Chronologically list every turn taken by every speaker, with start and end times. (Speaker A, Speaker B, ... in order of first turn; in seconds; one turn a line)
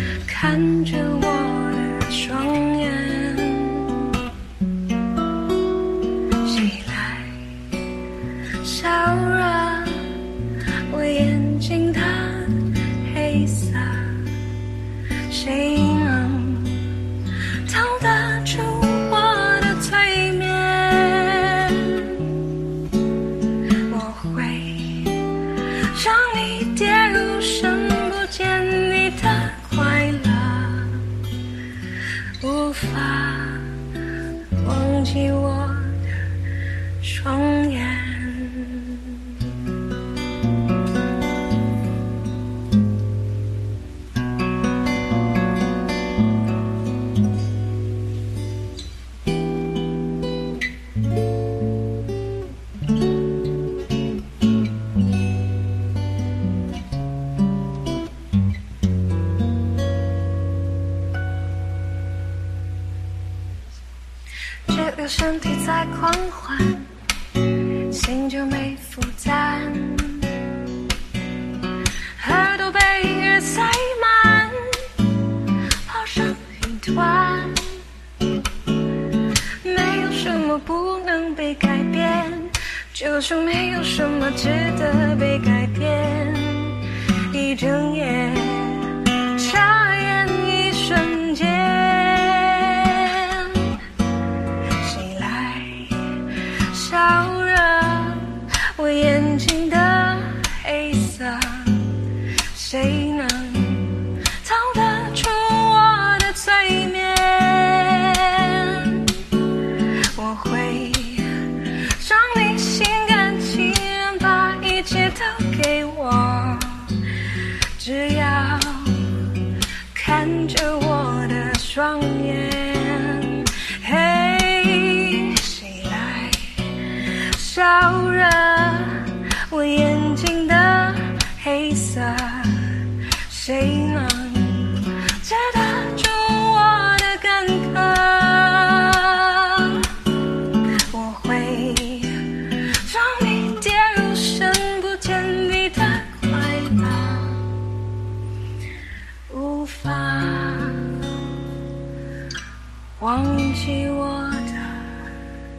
Speaker A: 0.3-4.2
Speaker A: 6.4-7.4
Speaker A: 8.6-10.2
Speaker A: 10.9-14.3
Speaker A: 15.3-17.0
Speaker A: 17.6-22.4
Speaker A: 23.9-31.1
Speaker A: 32.4-33.7
Speaker A: 34.6-36.1
Speaker A: 37.0-39.4
Speaker A: 64.7-66.9
Speaker A: 67.9-70.3
Speaker A: 72.2-75.0
Speaker A: 75.8-77.8
Speaker A: 79.6-93.8
Speaker A: 94.8-102.0
Speaker A: 102.5-109.1
Speaker A: 110.1-119.4
Speaker A: 119.9-140.1
Speaker A: 140.9-147.4
Speaker A: 149.3-151.1
Speaker A: 153.0-155.0